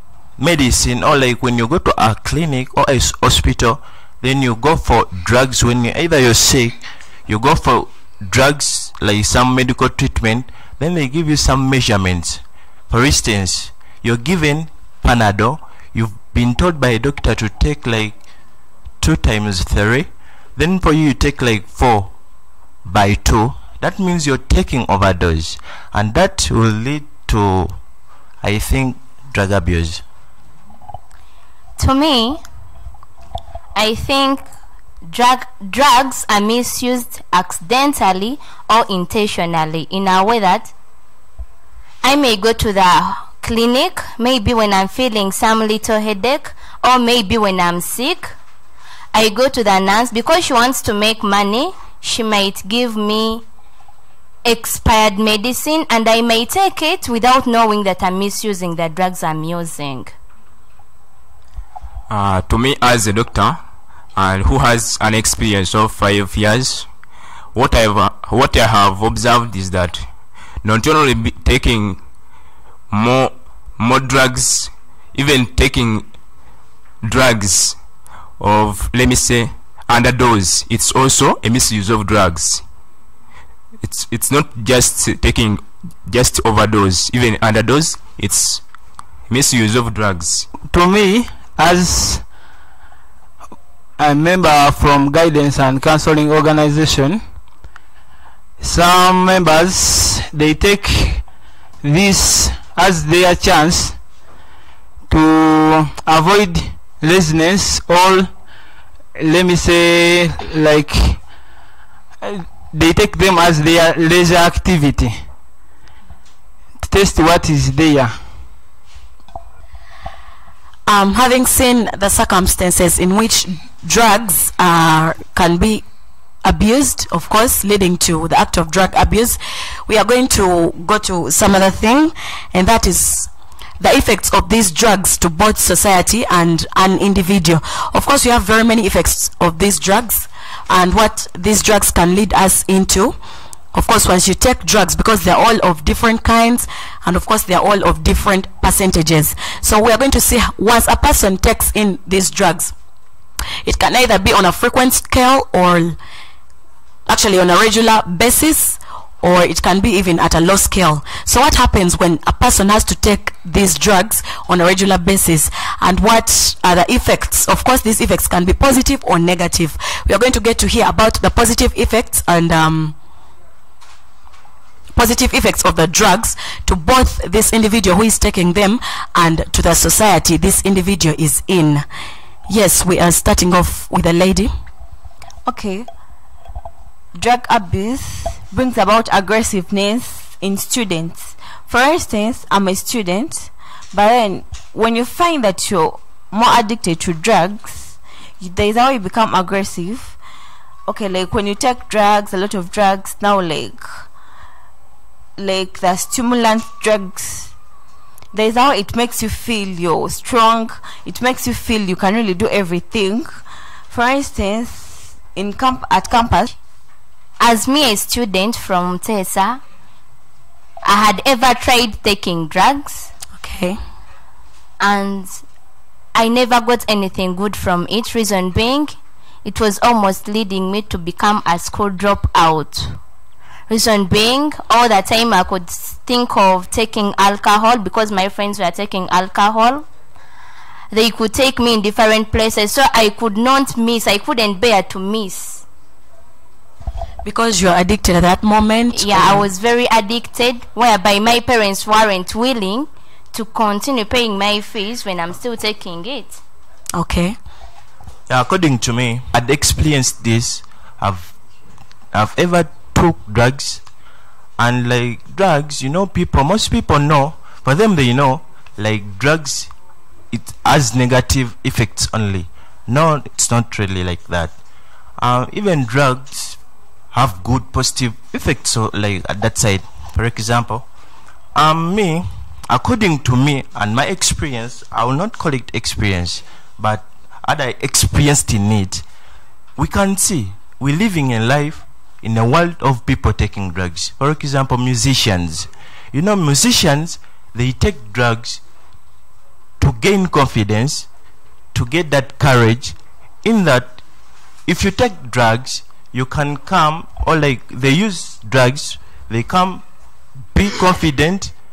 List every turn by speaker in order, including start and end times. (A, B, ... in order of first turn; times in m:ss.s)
0:00.4-0:18.2 A
0:19.0-0:22.1 A
0:22.8-0:27.8 A
0:28.4-0:30.0 A
0:31.8-0:32.4 B
0:33.8-0:34.5 B
0:35.1-0:40.7 B
0:42.0-0:48.3 B
0:49.1-0:53.4 B
0:54.4-1:00.1 B
1:02.1-1:03.6 C
1:04.2-1:06.9 C
1:07.5-1:10.1 C
1:10.6-1:12.0 C
1:12.9-1:16.1 C
1:17.0-1:17.8 C
1:18.4-1:22.6 C
1:23.8-1:28.6 C
1:29.3-1:30.5 C
1:30.7-1:32.2 D
1:34.0-1:37.2 D
1:38.6-1:41.3 D
1:41.8-1:44.0 D
1:45.1-1:48.3 D
1:49.2-1:51.3 D
1:52.2-1:55.2 D
1:56.8-1:58.2 D
2:00.9-2:05.8 E
2:06.4-2:23.2 E
2:23.7-2:32.7 E
2:33.6-2:36.0 E
2:37.1-2:53.0 E
2:55.0-3:01.8 E
3:02.5-3:04.5 E
3:05.5-3:05.9 F
3:07.2-3:20.2 F
3:20.9-3:24.0 F
3:25.4-3:27.5 F
3:28.3-3:33.4 F
3:33.9-3:36.6 F
3:37.4-3:39.6 B
3:40.8-3:43.1 B
3:43.4-3:43.8 E
3:44.8-3:45.4 B
3:46.2-3:53.0 B
3:53.7-3:59.9 B
4:00.9-4:05.6 B
4:07.2-4:09.5 E
4:08.9-4:16.4 B
4:16.9-4:17.4 E
4:18.3-4:21.3 A
4:22.1-4:23.8 A
4:24.6-4:29.7 A
4:30.3-4:34.6 A
4:35.2-4:36.6 A
4:37.1-4:40.9 A
4:41.6-4:49.0 A
4:49.8-4:58.6 A
4:59.8-5:01.1 A
5:01.7-5:04.0 A
5:04.7-5:09.8 A
5:10.5-5:11.5 A